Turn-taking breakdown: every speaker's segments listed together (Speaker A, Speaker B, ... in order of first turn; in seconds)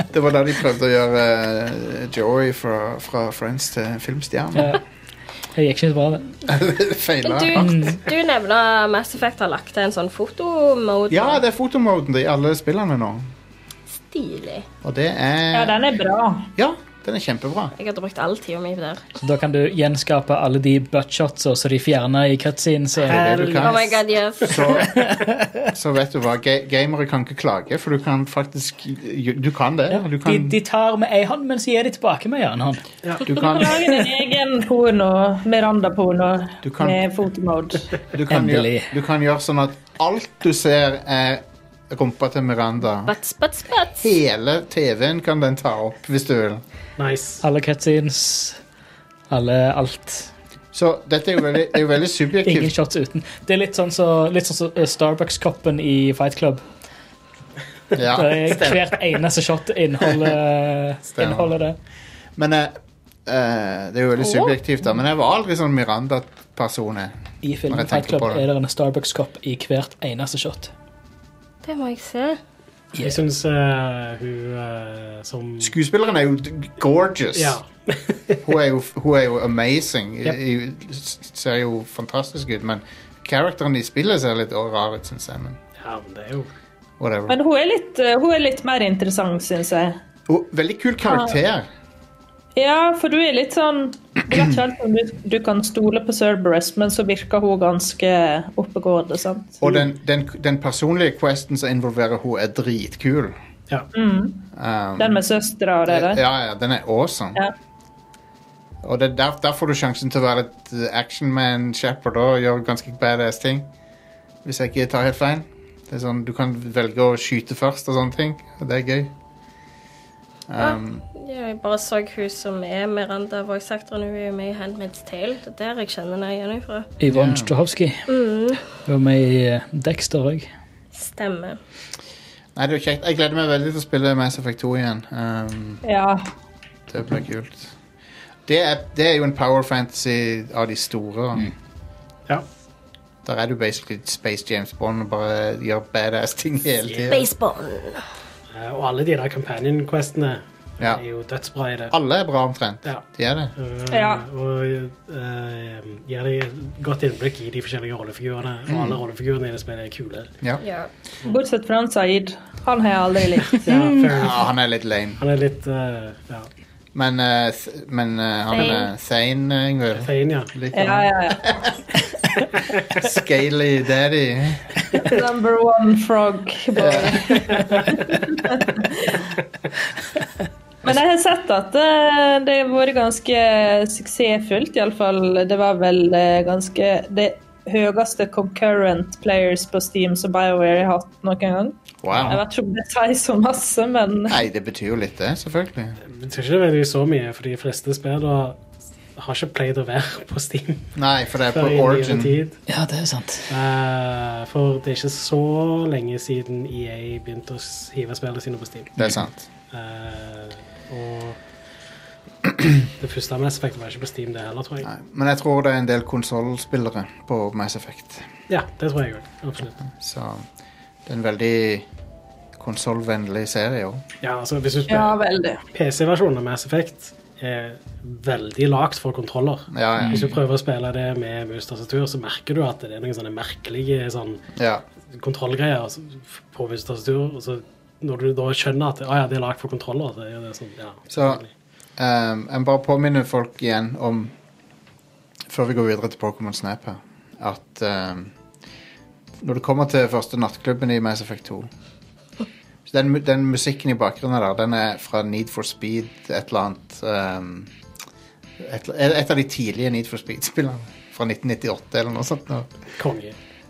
Speaker A: 0.1-4.8, 6.5-7.7, 11.1-13.3, 14.8-15.8, 16.6-17.7, 23.1-23.9, 24.4-25.0, 25.7-30.5, 33.2-33.9, 36.6-37.0, 38.1-43.1, 44.0-46.6, 50.7-52.7, 57.9-58.9, 61.1-61.5, 62.4-67.1, 67.7-68.4, 75.6-77.6, 78.4-85.6, 87.0-87.4, 90.3-91.7, 99.6-103.3, 104.5-105.2, 105.9-107.4, 108.8-113.7, 114.4-119.1, 120.5-121.0, 127.1-127.5, 132.5-135.8, 136.9-137.7, 138.5-141.5, 143.2-147.2, 151.9-153.5, 158.7-159.0, 164.1-165.2, 166.9-171.8, 173.0-174.8, 176.8-177.4, 192.0-192.4, 194.3-196.0, 200.9-202.4, 209.0-209.4, 214.8-218.3, 219.9-220.5, 221.1-221.8, 222.6-224.0, 229.7-230.2, 234.6-234.8, 241.1-241.4, 242.0-244.3, 245.5-248.3, 249.4-251.7, 252.9-257.7, 258.6-262.7
Speaker B: 4.5-4.8, 5.5-6.3, 7.5-8.0, 19.2-23.6, 24.9-25.6, 29.9-32.8, 38.3-38.9, 47.4-48.6, 49.3-50.3, 52.4-56.6, 58.1-61.8, 67.4-70.7, 72.9-73.2, 127.0-128.1, 128.8-130.5, 163.7-164.0, 202.7-203.5, 230.0-230.3
Speaker C: 7.2-11.4, 13.9-14.7, 17.8-19.1, 23.6-24.8, 43.0-44.1, 64.2-64.5, 71.6-72.4, 120.6-126.9, 128.1-128.6, 130.9-131.6, 147.1-148.0, 160.6-160.9, 168.5-168.9
Speaker D: 15.5-16.5, 33.3-37.9, 87.3-90.0, 92.5-99.6, 103.9-104.5, 105.0-106.2, 135.8-136.3, 153.9-154.2, 161.3-163.6, 170.7-171.6, 175.0-179.3, 180.8-194.4, 224.9-225.6
Speaker E: 23.1-23.8, 47.0-47.4, 73.0-75.7, 77.3-78.4, 85.8-86.5, 146.9-147.2, 148.5-151.9, 153.6-160.3, 163.6-164.5, 165.2-166.5, 169.9-170.5, 172.6-172.9, 177.5-177.8, 196.0-198.6, 199.2-200.9, 201.5-202.6, 203.5-209.0, 209.7-211.4, 212.8-214.9, 218.5-219.8, 224.2-225.2, 225.7-234.4, 235.1-241.5, 263.0-263.3